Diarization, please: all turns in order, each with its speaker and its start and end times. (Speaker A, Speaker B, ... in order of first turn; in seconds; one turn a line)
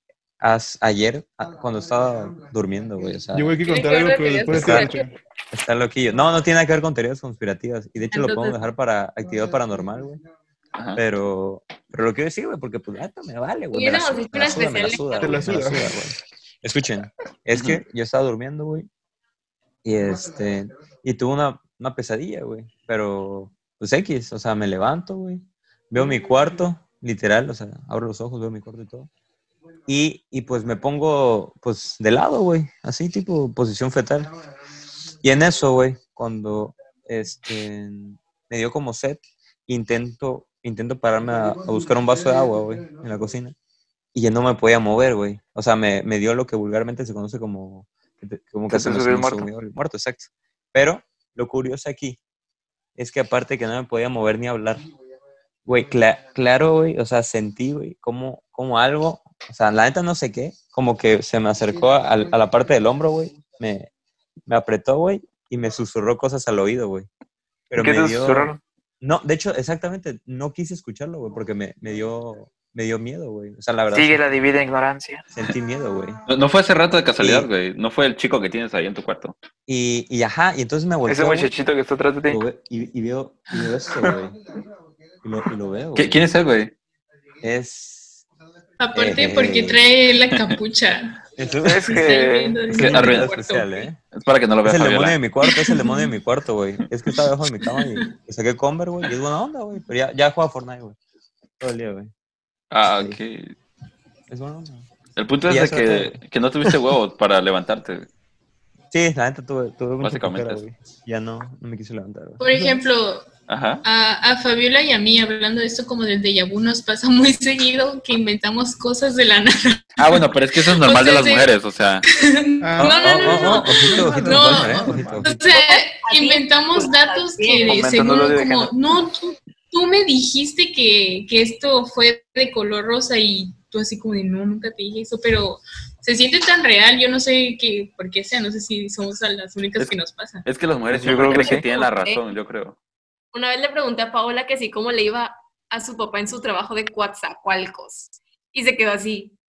Speaker A: 0.4-3.6
Speaker B: 3.3-5.1
Speaker C: 3.7-5.0
Speaker A: 4.5-4.9
Speaker A: 5.5-10.2
Speaker D: 8.1-8.6
Speaker E: 10.8-11.0
Speaker A: 11.0-18.9
Speaker D: 13.7-15.6
Speaker B: 15.2-15.9
Speaker A: 19.8-29.1
Speaker A: 29.9-34.3
Speaker A: 35.2-43.6
Speaker A: 44.1-52.2
Speaker F: 48.7-49.5
Speaker A: 53.0-54.9
Speaker A: 55.7-63.9
Speaker A: 64.5-67.1
Speaker A: 67.7-74.3
Speaker F: 67.8-68.6
Speaker F: 73.9-75.2
Speaker A: 75.3-76.2
Speaker E: 76.3-79.4
Speaker A: 77.2-77.5
Speaker A: 79.7-81.5
Speaker F: 81.1-82.4
Speaker A: 82.3-84.5
Speaker A: 85.2-86.2
Speaker E: 86.0-86.7
Speaker A: 87.4-88.2
Speaker C: 88.8-91.2
Speaker A: 88.9-89.9
Speaker E: 90.3-90.6
Speaker A: 91.4-92.1
Speaker F: 91.6-92.6
Speaker C: 91.9-93.9
Speaker A: 92.7-94.0
Speaker E: 92.7-93.3
Speaker E: 94.1-95.2
Speaker A: 94.6-101.0
Speaker C: 95.4-96.1
Speaker C: 97.7-98.1
Speaker A: 101.6-102.1
Speaker E: 102.7-103.5
Speaker A: 102.9-103.2
Speaker A: 104.3-104.9
Speaker E: 105.2-108.1
Speaker A: 105.5-106.8
Speaker A: 108.9-112.4
Speaker E: 110.0-110.6
Speaker C: 112.4-113.3
Speaker E: 113.5-113.8
Speaker C: 113.8-121.5
Speaker E: 120.0-122.1
Speaker C: 122.0-140.5
Speaker B: 122.6-125.4
Speaker A: 122.8-125.4
Speaker D: 125.5-127.9
Speaker F: 127.6-128.7
Speaker E: 139.8-142.8
Speaker F: 140.9-141.7
Speaker D: 141.4-142.2
Speaker D: 143.3-149.3